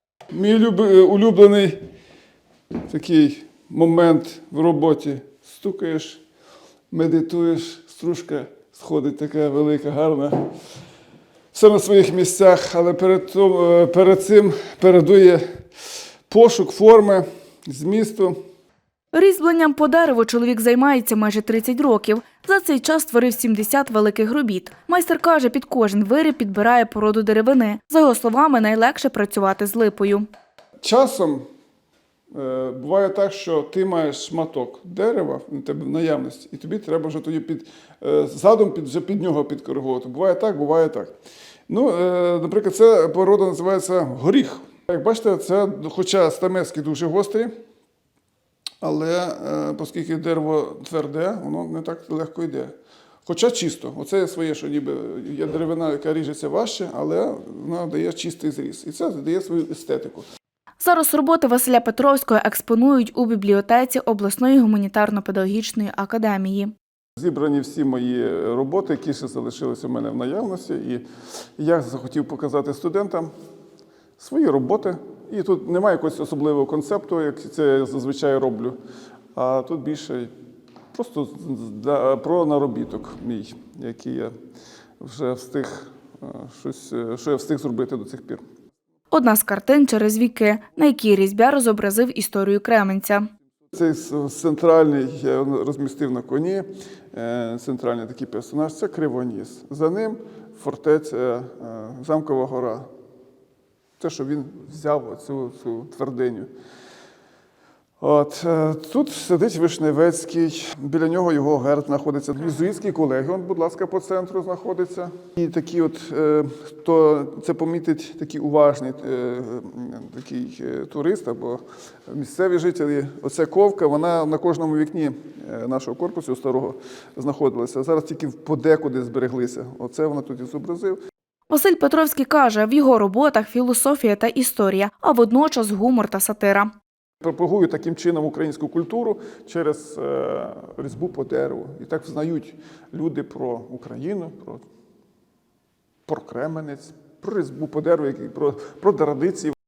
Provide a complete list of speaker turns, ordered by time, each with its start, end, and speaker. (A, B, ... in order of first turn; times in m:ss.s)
0:00.3-0:01.8 A
0:02.8-0:06.2 A
0:06.9-0:10.5 A
0:11.5-0:15.4 A
0:16.3-0:18.4 A
0:19.1-0:30.3 B
0:30.8-0:31.4 A
0:32.3-0:41.1 A
0:41.7-0:47.5 A
0:48.8-0:52.7 A
0:53.2-1:00.2 A
1:00.8-1:06.7 B
1:07.2-1:11.0 A
1:11.6-1:13.3 A
1:14.2-1:18.8 A
1:19.3-1:20.3 A
1:20.9-1:24.3 A
1:25.0-1:28.4 A
1:29.1-1:33.3 B
1:33.7-1:42.9 A
1:44.0-1:46.5 A
1:48.0-2:11.0 A
2:11.5-2:16.7 B
2:17.2-2:24.6 A
2:26.0-2:29.5 A